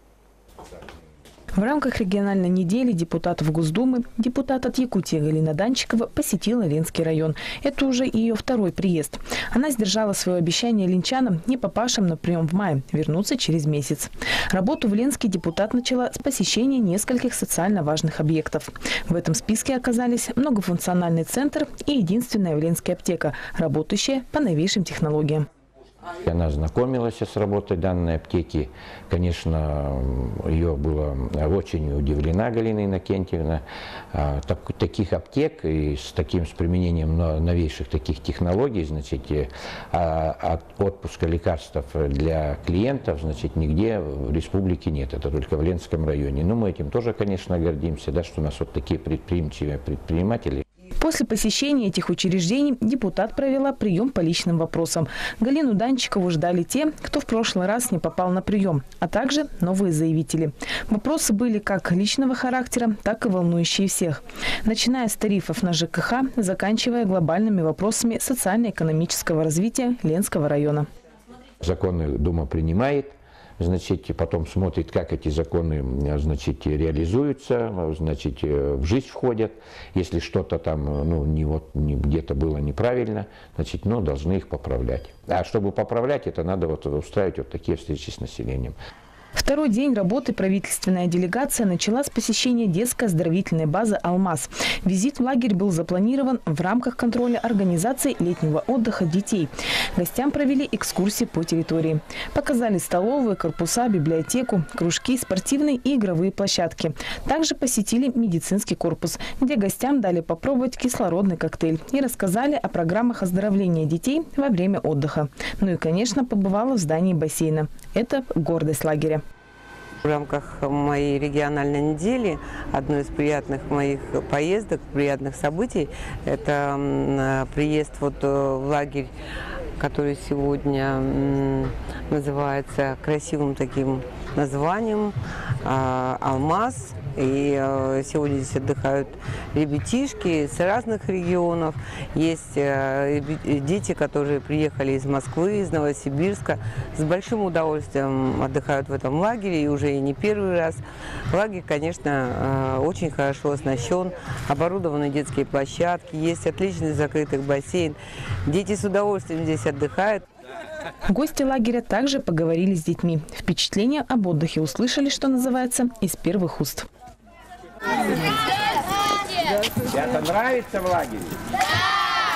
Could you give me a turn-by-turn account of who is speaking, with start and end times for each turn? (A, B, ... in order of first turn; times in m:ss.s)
0:01.6-0:25.5 A
0:26.2-0:50.6 B
0:51.0-1:10.9 A
1:11.6-1:28.8 B
1:29.4-1:59.2 A
2:00.0-2:09.1 C
2:09.8-2:40.2 C
2:41.1-2:46.9 A
2:49.9-2:51.4 B